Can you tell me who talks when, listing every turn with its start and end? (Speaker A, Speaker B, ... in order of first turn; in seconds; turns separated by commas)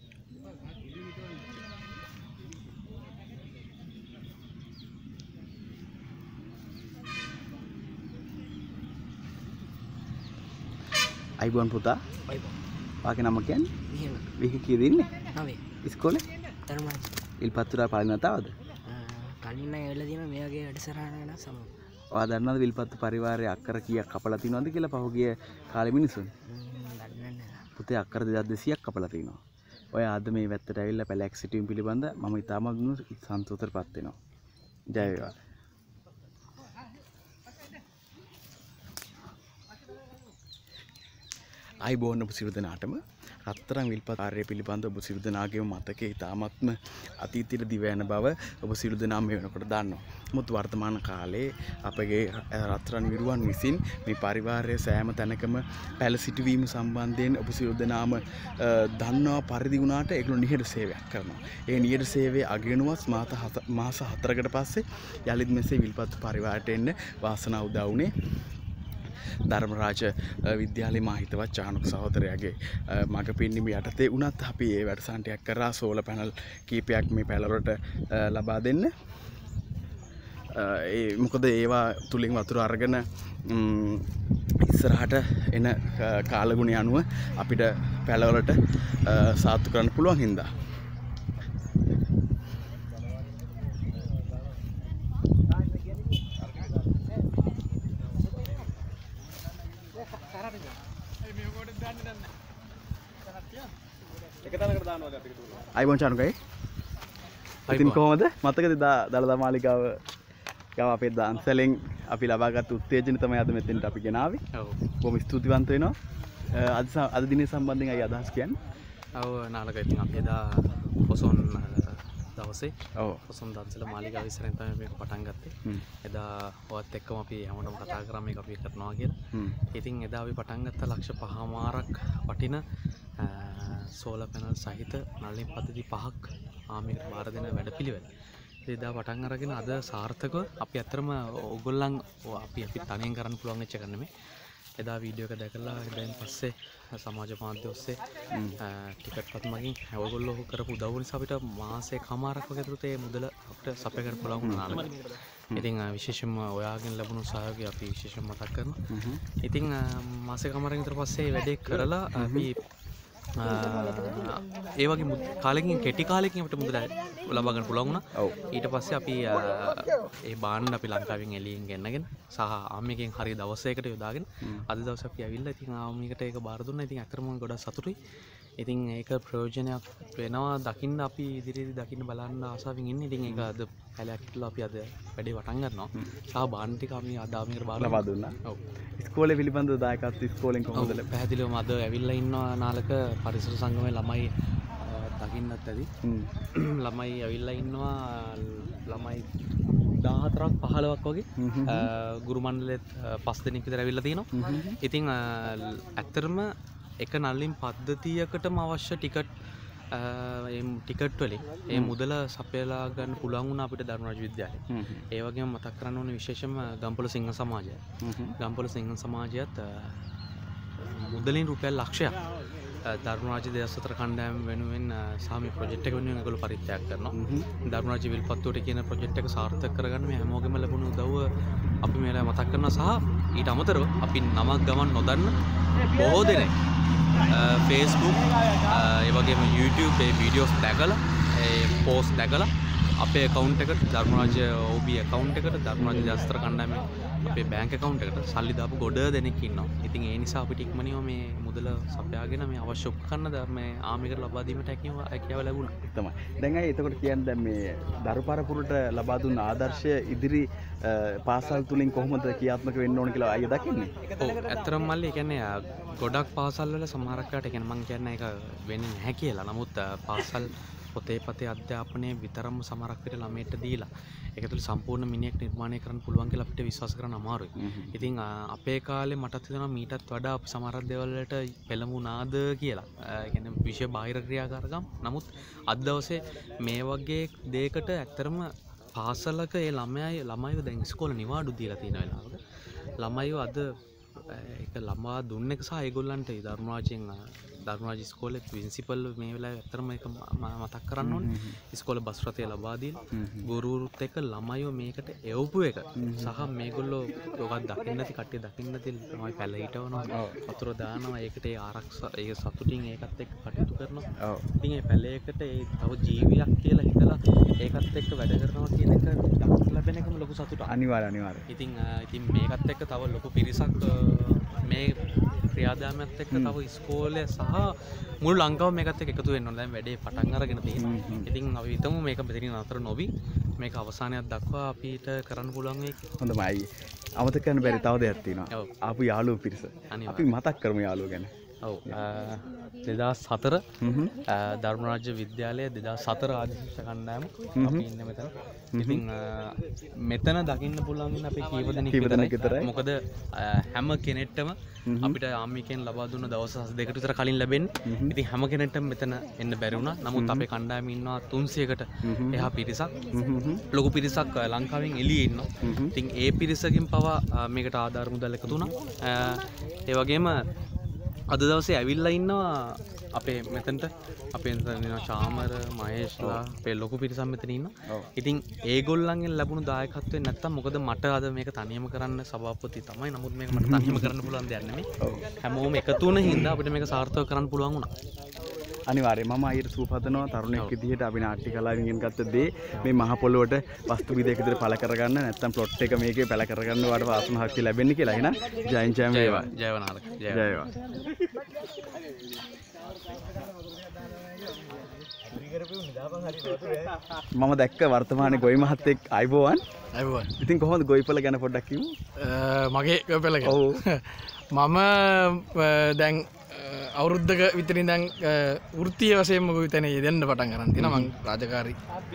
Speaker A: 11.4-12.0, Speaker A: 13.0-13.7, Speaker B: 13.9-14.3, Speaker A: 14.4-15.2, Speaker B: 15.3-15.6, Speaker A: 15.8-16.2, Speaker B: 16.7-17.2, Speaker A: 17.4-18.6, Speaker B: 18.9-21.7, Speaker A: 22.1-26.3, Speaker B: 26.5-27.7, Speaker A: 27.8-29.4, Speaker A: 29.9-34.2, Speaker A: 34.9-35.3, Speaker A: 41.8-68.1, Speaker A: 69.4-78.9, Speaker A: 80.5-84.1, Speaker A: 84.6-90.5, Speaker A: 105.7-106.4, Speaker C: 107.7-108.0, Speaker A: 107.7-110.0, Speaker A: 110.8-114.4, Speaker C: 114.5-114.9, Speaker A: 115.0-116.0, Speaker A: 116.5-118.6, Speaker C: 119.2-122.7, Speaker A: 123.0-123.2, Speaker C: 123.3-129.2, Speaker C: 129.7-132.6, Speaker C: 133.2-138.1, Speaker C: 138.7-144.1, Speaker C: 144.8-148.0, Speaker A: 148.3-148.6, Speaker C: 148.6-158.8, Speaker A: 154.4-154.8, Speaker A: 158.9-159.2, Speaker C: 159.4-162.5, Speaker A: 162.2-162.5, Speaker C: 163.4-178.0, Speaker C: 178.6-188.6, Speaker A: 187.8-188.4, Speaker A: 189.0-191.1, Speaker C: 190.8-195.9, Speaker A: 196.0-196.3, Speaker C: 196.5-199.3, Speaker C: 200.0-209.3, Speaker A: 201.4-201.9, Speaker A: 204.3-204.8, Speaker C: 209.9-217.8, Speaker A: 211.7-212.0, Speaker A: 214.7-215.1, Speaker A: 218.0-218.4, Speaker C: 218.4-220.0, Speaker C: 220.8-222.2, Speaker C: 222.8-231.3, Speaker A: 227.1-227.5, Speaker C: 231.8-236.6, Speaker C: 237.2-255.7, Speaker A: 244.1-244.4, Speaker A: 245.8-246.3, Speaker A: 255.9-263.9, Speaker C: 264.2-292.4, Speaker A: 277.6-278.1, Speaker C: 293.0-293.7, Speaker C: 294.2-314.1, Speaker A: 301.0-301.6, Speaker A: 303.1-303.5, Speaker A: 306.0-306.4, Speaker A: 310.1-310.4, Speaker A: 314.2-314.4, Speaker C: 314.6-320.7, Speaker A: 320.7-321.5, Speaker C: 321.5-325.0, Speaker C: 325.5-336.0, Speaker A: 326.3-326.6, Speaker A: 330.8-331.3, Speaker A: 336.2-336.7, Speaker A: 337.2-341.3, Speaker C: 339.9-340.3, Speaker C: 341.6-343.6, Speaker A: 343.8-344.2, Speaker C: 344.2-363.0, Speaker A: 347.6-347.9, Speaker A: 348.7-349.0, Speaker A: 351.9-352.7, Speaker A: 354.9-355.2, Speaker A: 357.9-358.1, Speaker A: 360.1-360.5, Speaker A: 362.1-362.5, Speaker A: 363.1-363.6, Speaker C: 363.7-370.4, Speaker A: 365.6-365.9, Speaker A: 368.5-368.7, Speaker C: 371.3-384.9, Speaker A: 383.5-384.2, Speaker A: 385.0-385.3, Speaker C: 385.4-387.9, Speaker A: 386.2-386.5, Speaker A: 388.9-399.5, Speaker C: 399.1-400.6, Speaker A: 400.3-400.7, Speaker A: 407.4-409.6, Speaker D: 409.9-410.3, Speaker A: 410.4-411.9, Speaker D: 412.2-421.8, Speaker A: 413.4-413.8, Speaker A: 420.8-421.1